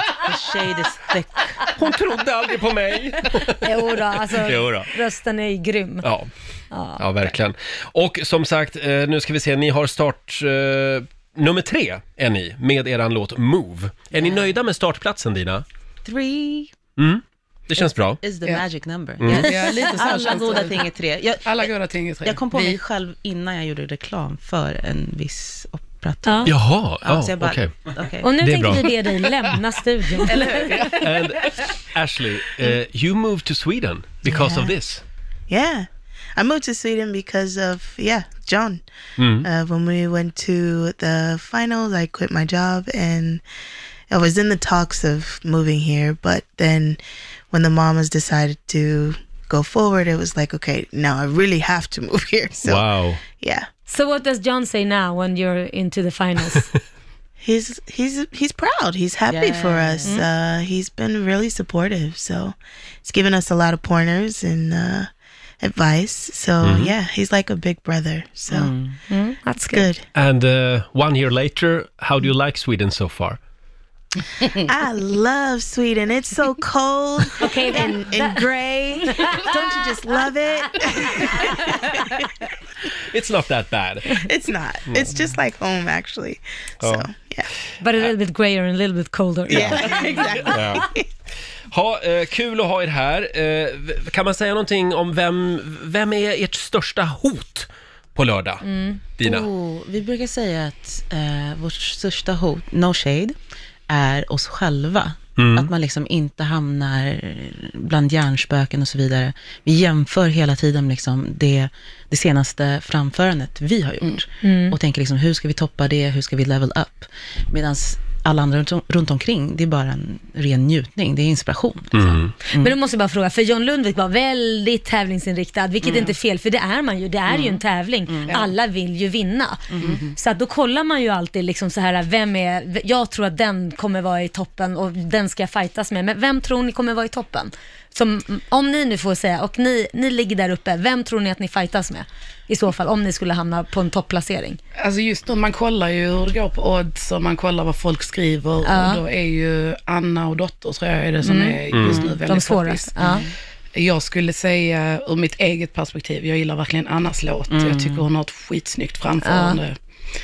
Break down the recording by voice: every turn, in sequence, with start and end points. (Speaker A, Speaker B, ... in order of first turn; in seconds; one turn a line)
Speaker A: 0.2-1.6
Speaker B: 1.7-3.7
Speaker C: 3.6-6.0
Speaker B: 4.3-4.9
Speaker B: 6.0-6.3
Speaker C: 6.7-7.0
Speaker B: 7.0-15.7
Speaker A: 14.2-14.4
Speaker A: 16.0-16.8
Speaker B: 17.0-18.2
Speaker A: 17.8-21.7
Speaker B: 19.2-19.5
Speaker D: 19.3-20.9
Speaker D: 21.4-22.8
Speaker A: 22.2-28.4
Speaker C: 26.2-26.5
Speaker B: 26.5-27.7
Speaker C: 28.2-30.9
Speaker B: 28.4-28.9
Speaker A: 30.3-30.9
Speaker B: 30.9-35.0
Speaker E: 34.3-34.8
Speaker E: 35.5-43.4
Speaker B: 39.2-39.5
Speaker E: 44.1-53.7
Speaker B: 52.6-53.2
Speaker C: 53.9-56.7
Speaker E: 57.4-68.7
Speaker A: 59.3-60.2
Speaker B: 66.6-66.9
Speaker A: 68.5-69.0
Speaker C: 69.1-69.9
Speaker E: 69.6-70.0
Speaker B: 70.2-73.4
Speaker E: 74.7-82.3
Speaker C: 77.4-78.5
Speaker C: 79.1-79.5
Speaker B: 83.1-84.2
Speaker E: 84.2-87.5
Speaker B: 84.9-85.2
Speaker A: 85.1-85.4
Speaker B: 86.8-87.1
Speaker C: 87.8-90.3
Speaker E: 89.5-91.0
Speaker B: 89.5-89.9
Speaker B: 90.4-90.8
Speaker B: 91.7-98.6
Speaker C: 98.7-99.0
Speaker B: 99.2-99.5
Speaker A: 99.2-103.4
Speaker A: 103.9-122.8
Speaker B: 105.4-105.7
Speaker C: 114.4-114.8
Speaker B: 121.9-122.3
Speaker C: 122.6-144.6
Speaker A: 125.8-126.1
Speaker A: 127.3-128.4
Speaker D: 128.3-128.5
Speaker A: 129.7-130.1
Speaker D: 144.8-153.1
Speaker C: 148.6-149.0
Speaker C: 151.2-153.2
Speaker B: 151.7-152.0
Speaker A: 151.8-152.2
Speaker A: 153.0-153.3
Speaker D: 153.8-159.8
Speaker A: 157.5-158.1
Speaker C: 159.2-159.6